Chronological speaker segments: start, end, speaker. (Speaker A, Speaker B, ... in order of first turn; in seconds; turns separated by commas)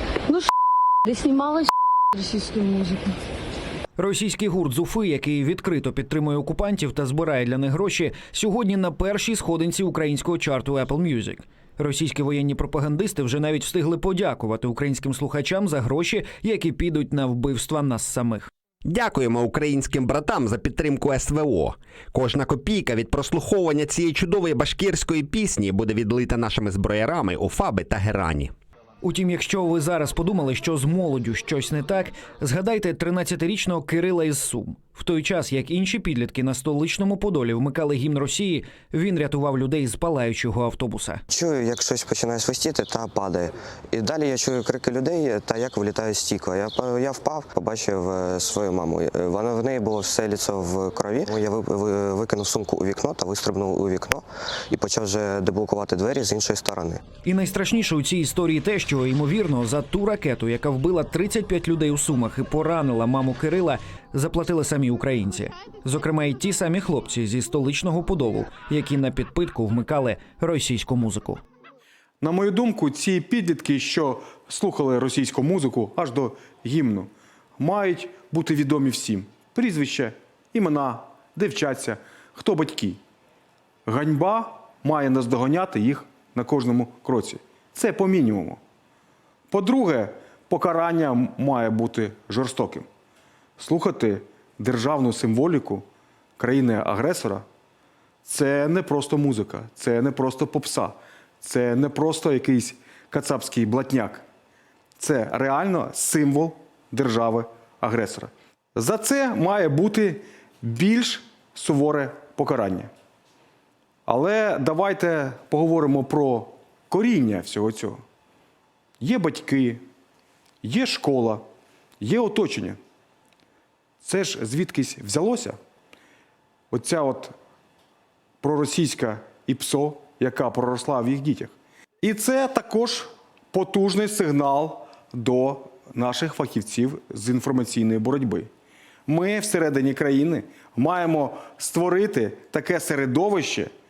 Speaker A: 1.0-3.1, Speaker B: 4.0-18.5, Speaker C: 18.8-28.5, Speaker B: 29.0-41.2, Speaker D: 41.3-57.0, Speaker B: 57.2-71.4, Speaker E: 72.2-83.0, Speaker E: 83.8-88.6, Speaker E: 89.5-92.9, Speaker E: 93.6-95.8, Speaker E: 96.4-97.4, Speaker E: 98.2-104.2, Speaker E: 105.0-112.9, Speaker E: 114.0-118.0, Speaker E: 119.0-119.8, Speaker E: 120.6-121.4, Speaker E: 122.0-122.8, Speaker E: 124.0-125.6, Speaker E: 126.7-127.3, Speaker E: 128.4-138.5, Speaker E: 139.1-143.7